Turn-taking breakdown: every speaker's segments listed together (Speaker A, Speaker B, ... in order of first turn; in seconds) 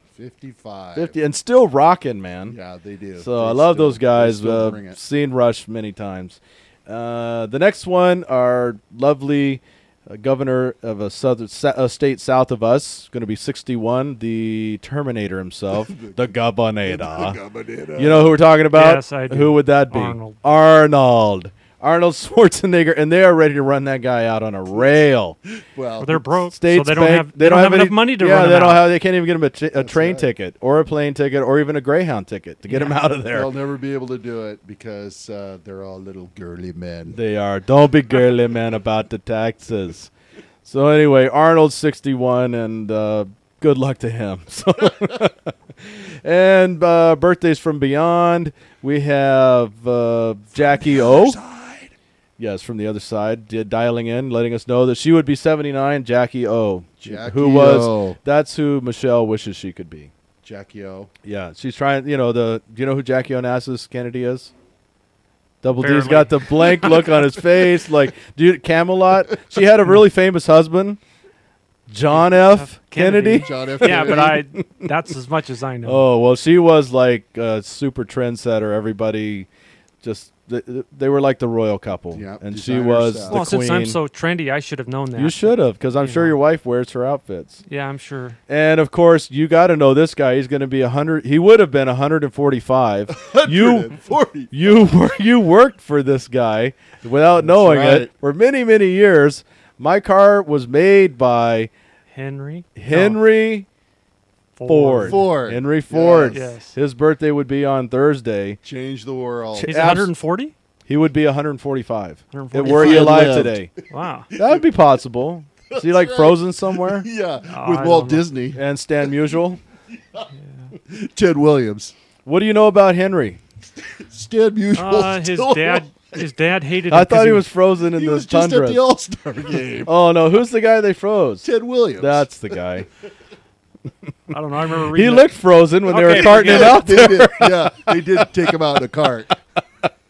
Speaker A: 0.2-1.1, 2.5-5.0, 15.8-16.2, 16.9-18.4, 25.6-26.3, 29.8-30.3, 33.3-37.2, 50.6-51.9, 57.0-58.2, 60.4-61.1, 73.4-74.4, 82.1-83.4, 93.1-94.9, 97.3-98.1, 105.0-106.4, 108.6-109.9, 112.6-113.7, 114.3-114.7, 115.7-118.6, 120.9-121.9, 124.1-125.9, 127.9-129.9, 131.4-132.3, 135.9-139.3
Speaker B: 0.9-2.6, 3.2-17.4, 18.0-25.4, 26.5-33.5, 37.1-40.1, 40.6-51.4, 52.4-60.1, 61.2-64.5, 65.6-71.0, 71.9-74.9, 75.8-79.5, 80.0-84.0, 85.2-87.6, 88.5-93.9, 94.5-101.7, 102.8-103.7, 104.7-108.6, 109.5-110.1, 110.9-113.7, 114.3-117.1, 118.5-119.6, 122.3-123.4, 126.9-128.8, 129.9-132.9, 134.9-138.2
Speaker C: 18.7-20.4, 26.0-28.9, 32.7-33.0, 65.8-67.1, 72.1-76.1, 83.3-86.4, 87.7-88.4, 102.1-103.2, 104.6-105.2, 106.3-106.8, 109.6-110.5, 112.3-114.3, 117.5-118.2, 124.7-127.5, 134.3-135.3, 135.9-136.8